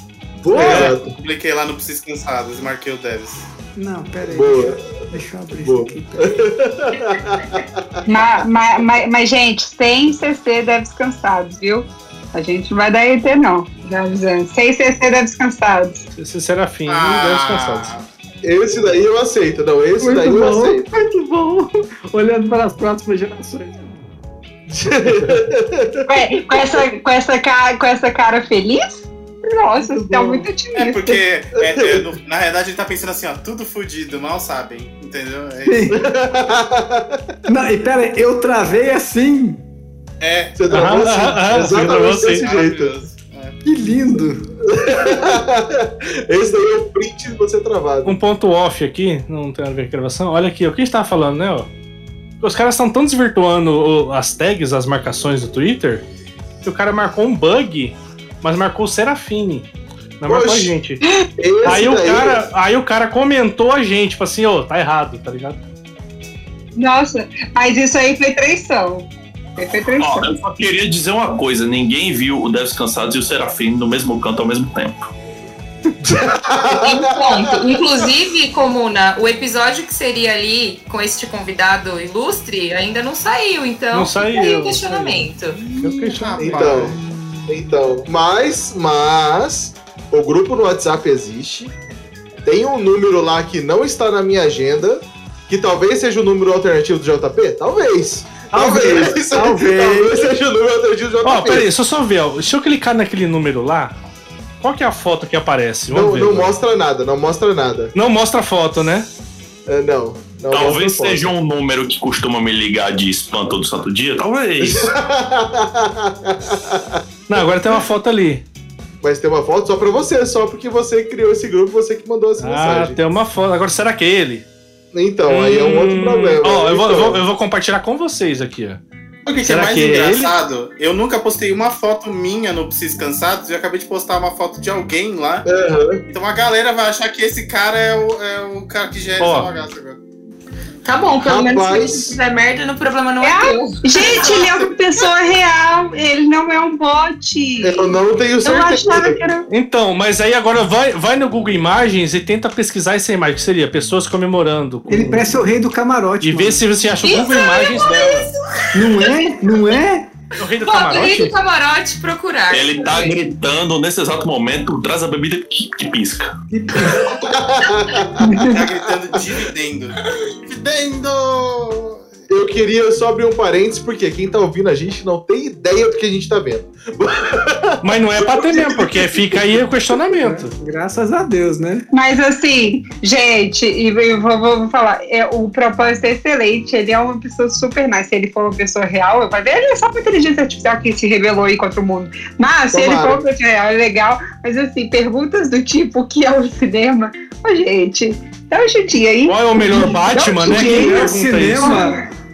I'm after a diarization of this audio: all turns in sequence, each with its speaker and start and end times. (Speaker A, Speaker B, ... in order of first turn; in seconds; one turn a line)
Speaker A: 0.5-1.1
Speaker B: 0.5-1.0
Speaker C: 0.5-3.5
Speaker D: 3.8-6.4
Speaker A: 4.3-5.1
Speaker A: 5.6-8.0
Speaker E: 8.1-16.1
Speaker B: 16.1-17.9
Speaker C: 16.9-18.1
Speaker A: 18.4-20.9
Speaker D: 20.0-23.9
Speaker A: 24.7-26.1
Speaker E: 26.1-28.9
Speaker E: 29.5-31.2
Speaker D: 29.9-30.5
Speaker C: 30.7-35.9
Speaker A: 31.6-32.1
Speaker D: 35.6-36.0
Speaker A: 35.9-37.2
Speaker D: 37.5-39.6
Speaker C: 40.2-40.6
Speaker A: 40.6-42.9
Speaker B: 40.7-42.5
Speaker C: 42.4-43.6
Speaker D: 43.6-44.5
Speaker A: 44.7-48.2
Speaker B: 48.0-51.7
Speaker B: 52.4-56.0
Speaker B: 56.6-59.7
Speaker B: 60.2-61.0
Speaker A: 60.3-60.8
Speaker A: 61.4-62.5
Speaker B: 61.6-65.6
Speaker E: 66.8-70.3
Speaker F: 70.0-75.0
Speaker A: 76.1-77.8
Speaker G: 76.7-85.6
Speaker B: 83.9-87.0
Speaker C: 86.2-87.0
Speaker A: 86.4-91.7
Speaker A: 92.4-101.7
Speaker D: 98.5-100.2
Speaker B: 101.2-103.9
Speaker B: 104.6-106.5
Speaker A: 105.9-107.9
Speaker B: 107.9-109.1
Speaker A: 109.7-111.3
Speaker F: 110.5-114.9
Speaker A: 114.6-117.4
Speaker B: 117.3-118.4
Speaker A: 119.0-123.0
Speaker B: 122.4-124.5
Speaker A: 124.9-127.2
Speaker B: 125.3-128.8
Speaker C: 129.3-135.5
Speaker B: 129.4-130.3
Speaker A: 135.5-136.0
Speaker C: 136.1-140.0
Speaker B: 139.2-139.5
Speaker G: 140.8-144.2
Speaker A: 141.2-142.1
Speaker E: 143.2-149.5
Speaker C: 144.1-144.7
Speaker A: 147.6-149.2
Speaker B: 149.5-155.4
Speaker D: 154.9-156.7
Speaker B: 156.2-158.3
Speaker G: 157.0-158.3
Speaker D: 158.7-160.1
Speaker B: 160.4-161.3
Speaker G: 160.7-163.2
Speaker F: 162.5-166.3
Speaker D: 166.5-167.2
Speaker A: 167.2-169.1
Speaker E: 168.2-168.6
Speaker C: 168.4-172.1
Speaker A: 172.3-179.6
Speaker B: 177.8-180.5
Speaker D: 180.2-181.9
Speaker E: 181.9-201.1
Speaker A: 192.7-193.2
Speaker B: 199.2-201.8
Speaker D: 199.7-202.1
Speaker E: 201.6-202.0